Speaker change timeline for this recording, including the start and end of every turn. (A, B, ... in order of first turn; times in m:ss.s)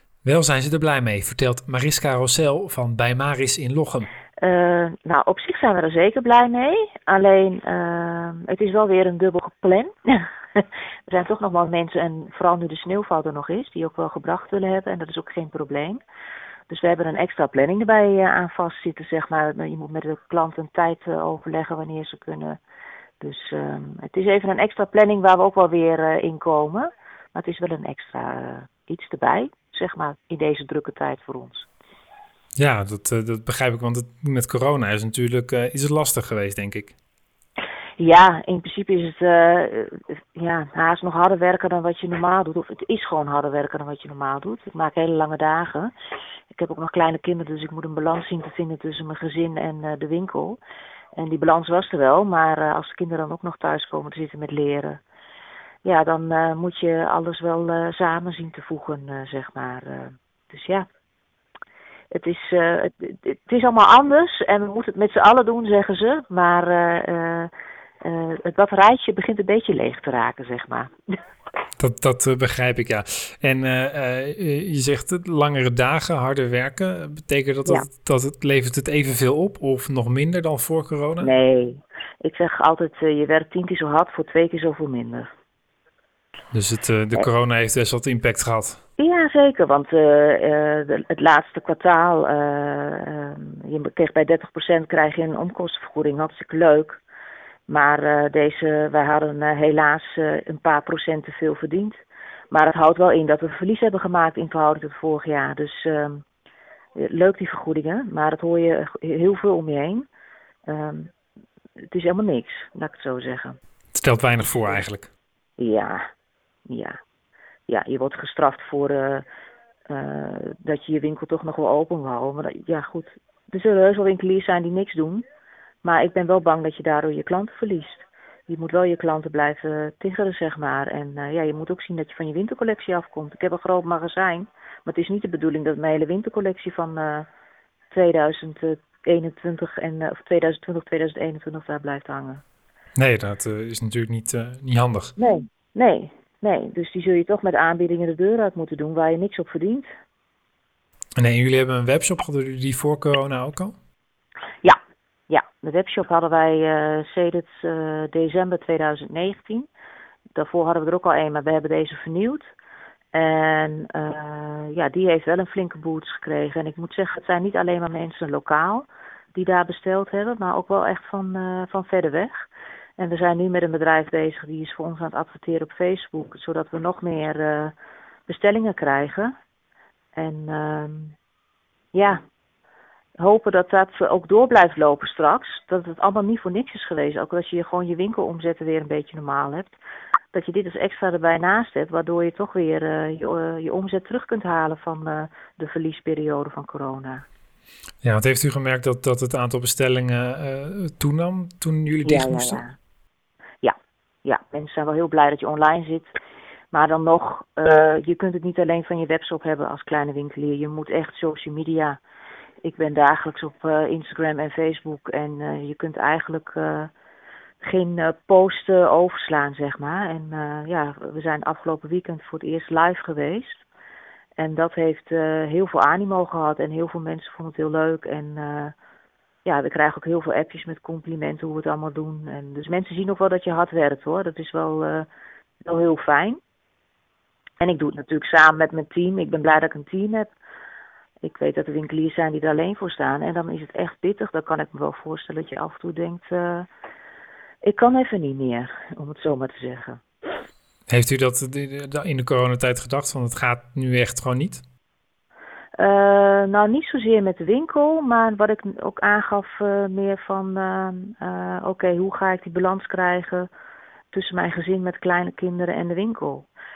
0:00.2-0:04.1 A
0:04.4-0:16.0 B
0:16.7-0:22.6 B
0:23.2-0:31.7 B
0:32.6-0:36.9 A
0:38.0-0:45.9 B
0:46.5-0:50.6 B
0:51.2-0:55.0 B
0:55.8-1:00.8 B
1:02.1-1:10.9 B
1:11.8-1:21.3 A
1:21.2-1:25.3 B
1:26.5-1:28.8 A
1:29.0-1:37.0 B
1:37.7-1:46.2 B
1:46.9-1:50.1 B
1:50.6-1:51.1 B
1:51.9-1:53.6 B
1:53.9-1:55.1 A
1:55.6-1:56.0 B
1:56.7-1:57.0 B
1:57.7-1:59.2 B
1:59.9-2:05.2 B
2:05.8-2:17.3 B
2:17.9-2:22.4 B
2:23.0-2:25.1 A
2:25.2-2:29.9 B
2:31.2-2:33.7 A
2:35.3-2:39.7 B
2:40.3-2:42.5 B
2:43.1-2:57.7 B
2:58.3-2:59.3 B
3:00.1-3:01.1 B
3:01.9-3:02.2 B
3:03.2-3:09.8 B
3:10.3-3:17.2 B
3:18.0-3:22.6 A
3:22.0-3:22.7 B
3:23.6-3:26.1 B
3:26.7-3:32.0 B
3:32.6-3:36.9 B
3:37.6-3:43.6 B
3:44.4-3:48.7 B
3:49.4-3:55.1 B
3:55.6-3:56.4 B
3:57.6-4:00.3 B
4:01.2-4:06.7 B
4:07.6-4:10.0 B
4:10.9-4:14.6 A
4:15.8-4:23.5 B
4:24.1-4:26.5 B